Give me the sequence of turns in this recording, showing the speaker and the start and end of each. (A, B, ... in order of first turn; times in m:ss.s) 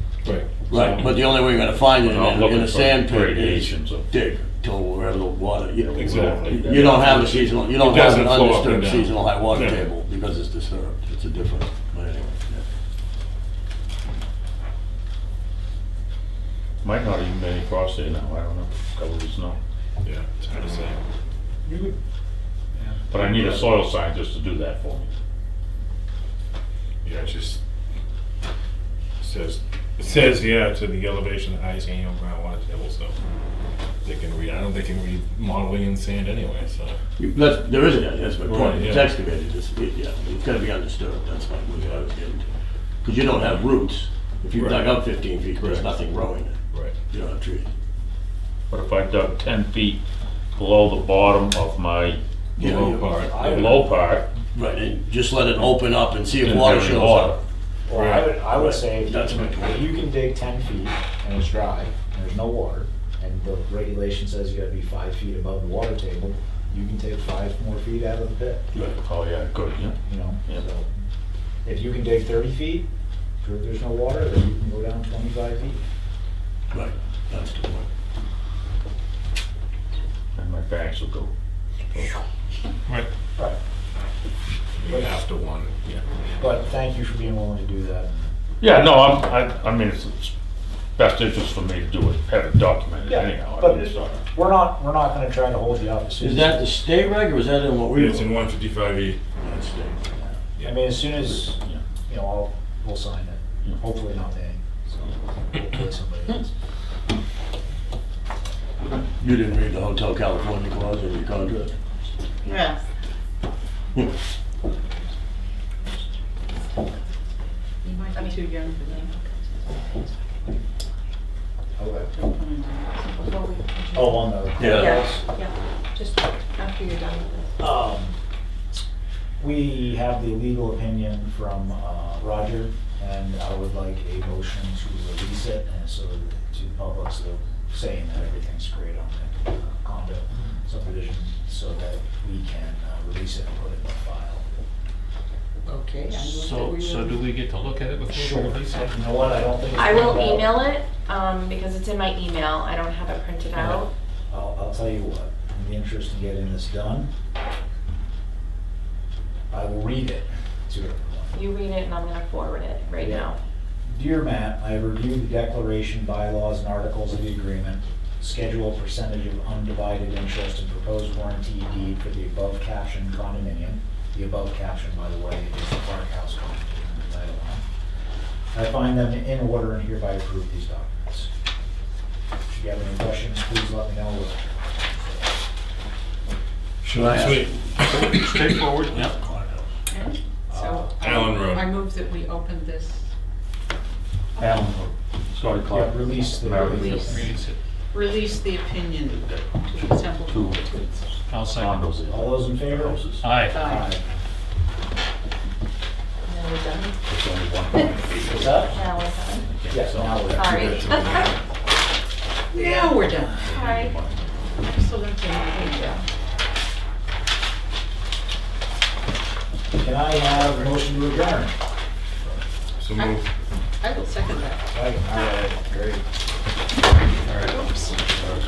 0:00.2-0:00.7 A
0:00.7-0:12.6 B
0:00.8-0:01.0 C
0:01.9-0:04.1 C
0:05.8-0:07.4 C
0:05.9-0:09.9 A
0:16.8-0:19.6 C
0:20.0-0:21.0 A
0:21.6-0:22.0 D
0:22.7-0:23.8 D
0:23.1-0:25.1 C
0:27.0-0:27.6 A
0:29.2-0:33.1 A
0:34.0-0:37.0 A
0:37.2-0:42.5 B
0:38.4-0:39.2 A
0:41.7-0:42.0 A
0:43.0-0:46.5 B
0:44.5-0:45.0 A
0:45.6-0:45.9 A
0:47.1-0:47.7 B
0:48.7-0:50.0 C
0:50.6-0:52.2 C
0:52.6-0:53.2 B
0:52.6-0:53.8 A
0:53.2-0:54.0 D
0:53.4-0:54.3 C
0:54.5-0:57.4 B
0:56.4-0:57.4 C
0:57.9-1:08.7 D
0:57.9-0:58.3 A
0:58.5-1:00.0 B
1:08.7-1:09.0 B
1:09.0-1:10.6 C
1:10.0-1:10.9 D
1:11.6-1:12.9 D
1:13.4-1:15.8 D
1:16.7-1:17.9 B
1:20.4-1:21.3 C
1:24.8-1:26.0 A
1:26.4-1:28.3 D
1:28.6-1:30.3 C
1:31.0-1:34.2 C
1:33.0-1:36.7 D
1:36.2-1:38.3 B
1:37.9-1:39.2 A
1:39.4-1:40.0 B
1:40.2-1:46.5 D
1:49.2-1:51.7 B
1:52.4-1:52.8 E
1:57.8-1:59.1 E
2:01.8-2:02.1 D
2:02.1-2:04.3 E
2:03.9-2:05.2 D
2:04.6-2:05.1 B
2:04.6-2:05.5 F
2:07.6-2:08.2 D
2:09.4-2:24.4 D
2:25.6-2:27.3 E
2:26.2-2:26.7 B
2:26.4-2:28.8 G
2:28.1-2:30.6 D
2:29.7-2:33.9 F
2:34.3-2:37.1 D
2:39.5-2:41.4 D
2:41.3-2:43.4 F
2:43.0-2:43.3 D
2:43.9-2:57.6 D
2:58.5-3:01.3 D
3:02.5-3:04.5 D
3:06.8-3:08.5 A
3:06.9-3:07.6 B
3:07.9-3:09.1 G
3:08.9-3:09.5 B
3:09.9-3:13.0 E
3:10.5-3:10.9 D
3:11.0-3:11.7 A
3:14.4-3:17.2 C
3:15.6-3:17.3 D
3:16.7-3:17.6 G
3:17.9-3:21.1 E
3:20.0-3:20.7 C
3:21.3-3:22.0 G
3:21.5-3:23.3 C
3:22.1-3:24.0 D
3:23.2-3:23.6 G
3:23.5-3:23.9 E
3:26.3-3:27.0 E
3:27.0-3:28.8 C
3:28.2-3:28.8 D
3:28.7-3:29.5 F
3:29.4-3:30.8 C
3:29.7-3:30.9 D
3:30.3-3:31.3 F
3:30.6-3:31.3 A
3:32.5-3:33.5 E
3:33.4-3:34.3 C
3:33.5-3:33.9 F
3:34.6-3:36.0 E
3:35.5-3:36.0 F
3:39.7-3:41.6 D
3:42.8-3:43.2 A
3:42.9-3:43.2 E
3:43.8-3:44.7 E
3:44.7-3:46.0 D
3:47.3-3:48.3 E